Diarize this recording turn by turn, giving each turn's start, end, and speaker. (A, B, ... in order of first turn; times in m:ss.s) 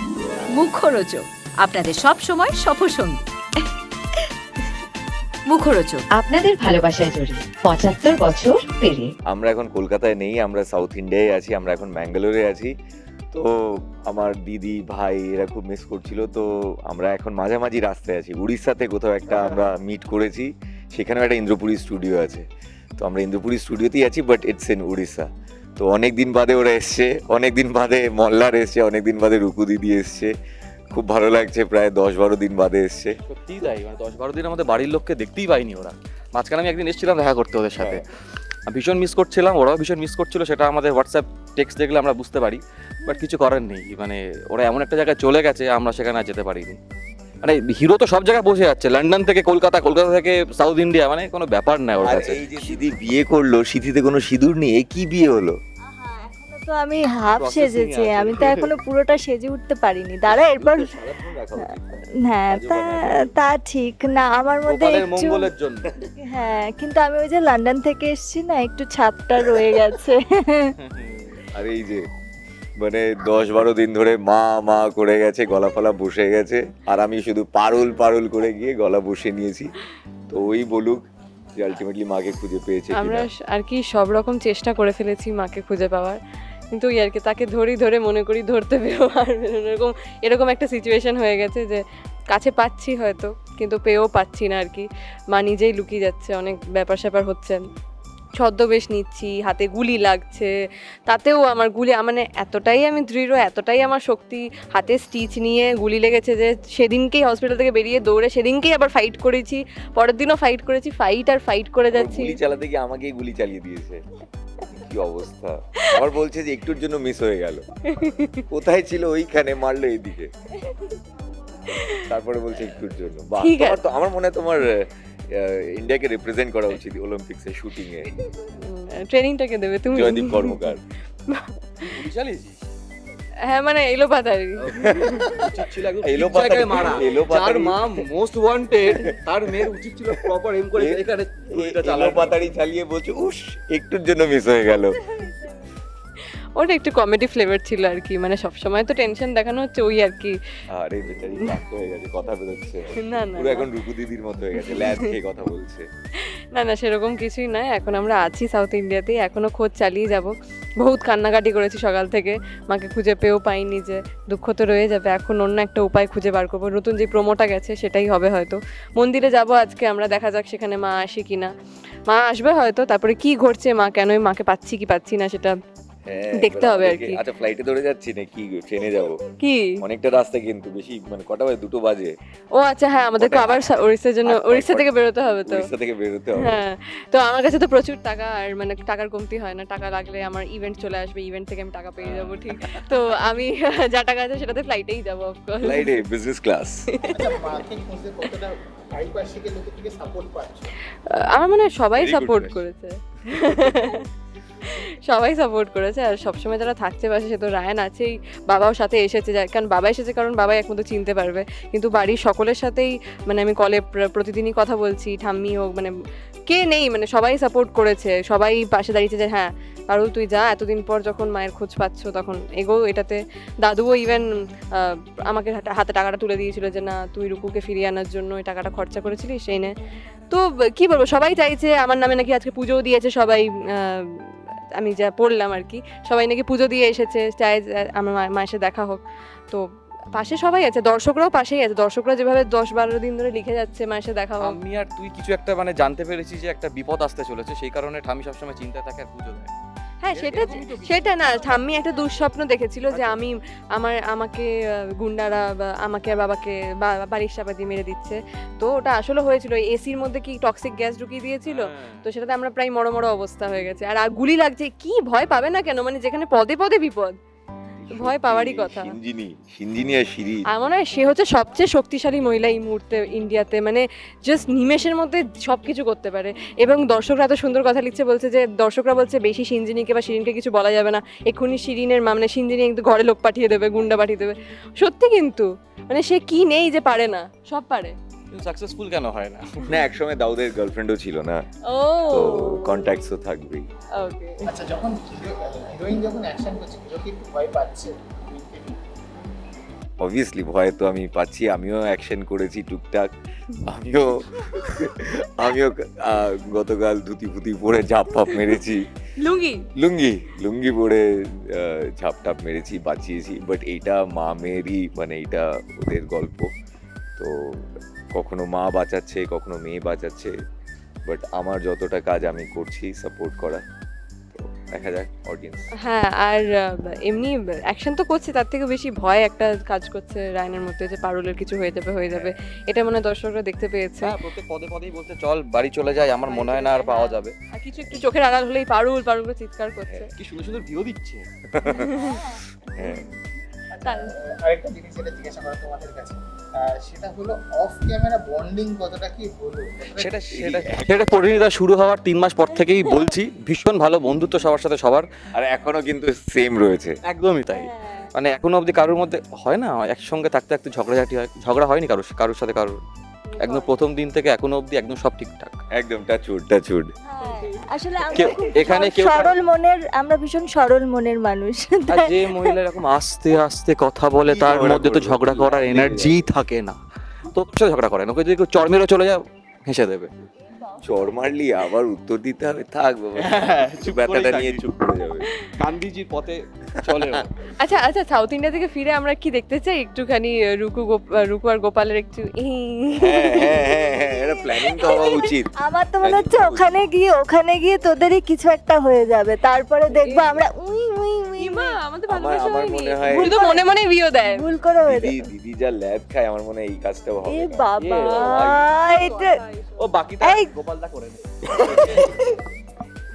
0:00.5-0:03.2 A
0:05.5-0:06.1 A
0:06.1-0:09.1 B
0:09.3-0:12.7 C
0:14.0-0:22.4 C
0:23.0-0:25.3 C
0:25.8-0:30.3 C
0:30.9-0:33.2 C
0:33.3-0:38.0 D
0:37.8-0:38.0 C
0:38.7-0:46.8 D
0:47.4-0:52.4 D
0:52.0-0:55.6 C
0:55.9-1:01.0 E
0:57.3-0:58.7 D
1:00.3-1:03.4 C
1:02.2-1:05.5 E
1:04.7-1:05.9 D
1:06.2-1:10.7 E
1:10.8-1:11.4 D
1:11.6-1:12.0 C
1:12.8-1:19.7 C
1:20.3-1:21.0 C
1:21.6-1:23.3 C
1:23.0-1:26.2 F
1:26.7-1:37.6 F
1:38.4-1:40.5 F
1:41.1-1:52.4 F
1:51.9-1:54.0 C
1:54.6-1:57.6 C
1:57.9-1:58.4 F
1:58.5-2:00.3 C
2:01.7-2:02.0 F
2:02.1-2:08.1 C
2:03.4-2:03.8 F
2:08.5-2:10.6 F
2:09.9-2:10.8 C
2:11.8-2:12.6 D
2:13.5-2:14.6 F
2:14.6-2:22.4 D
2:14.8-2:15.5 C
2:16.0-2:17.9 C
2:21.5-2:25.0 C
2:26.6-2:30.4 F
2:30.7-2:35.9 C
2:33.0-2:33.7 F
2:34.5-2:35.1 F
2:36.5-2:51.5 F
2:52.1-2:55.6 F
2:56.1-2:59.2 C
2:56.3-2:57.2 F
2:59.4-2:59.7 F
2:59.8-3:02.2 C
3:02.6-3:05.7 F
3:03.2-3:03.7 C
3:04.3-3:04.9 C
3:05.5-3:06.6 C
3:06.4-3:16.0 F
3:12.0-3:12.4 D
3:15.6-3:16.8 C
3:16.9-3:17.3 F
3:17.0-3:20.7 G
3:21.1-3:24.1 F
3:22.0-3:22.6 C
3:23.4-3:23.8 C
3:24.6-3:35.9 F
3:36.5-3:44.2 F
3:44.8-3:49.7 F
3:50.3-3:54.2 F
3:54.8-4:04.6 F
4:04.4-4:09.5 D
4:10.0-4:27.1 F
4:10.1-4:11.8 D
4:12.9-4:13.2 D
4:21.5-4:22.1 D
4:27.8-4:30.4 C
4:27.9-4:29.0 F
4:30.5-4:48.0 F
4:48.3-4:49.8 D
4:49.7-4:51.4 C
4:51.7-4:52.8 F
4:52.1-4:53.7 C
4:54.0-4:54.5 F
4:54.4-4:58.8 G
5:00.0-5:03.1 C
5:03.6-5:08.9 C
5:09.2-5:09.7 F
5:09.8-5:16.5 C
5:17.2-5:17.6 C
5:18.1-5:20.3 C
5:21.1-5:23.6 C
5:24.3-5:25.7 C
5:25.8-5:34.1 F
5:34.0-5:37.3 D
5:36.1-5:40.1 F
5:40.2-5:41.3 D
5:41.5-5:41.9 C
5:41.7-5:42.2 F
5:42.0-5:42.4 E
5:42.8-5:43.0 C
5:43.7-5:50.2 G
5:43.8-5:44.2 F
5:50.0-5:55.1 D
5:50.3-5:51.5 C
5:52.8-5:53.1 E
5:55.3-5:57.0 C
5:57.1-6:02.8 D
5:57.5-5:58.1 E
6:03.3-6:03.7 F
6:03.4-6:05.6 D
6:05.7-6:06.9 C
6:07.1-6:12.6 E
6:08.1-6:09.3 D
6:11.9-6:16.8 D
6:14.3-6:16.3 C
6:17.3-6:20.1 D
6:20.6-6:21.1 E
6:20.8-6:25.3 C
6:23.2-6:24.7 D
6:25.5-6:27.3 D
6:26.8-6:27.1 C
6:27.6-6:33.7 F
6:33.0-6:36.8 C
6:33.6-6:41.8 E
6:39.9-6:40.4 F
6:41.4-6:44.4 F
6:42.1-6:43.3 C
6:43.1-6:43.7 E
6:44.2-6:45.3 E
6:44.8-6:47.7 C
6:47.3-6:49.4 E
6:47.8-6:48.7 D
6:48.0-6:49.9 F
6:49.8-6:52.1 D
6:50.2-6:50.5 E
6:51.5-6:52.4 E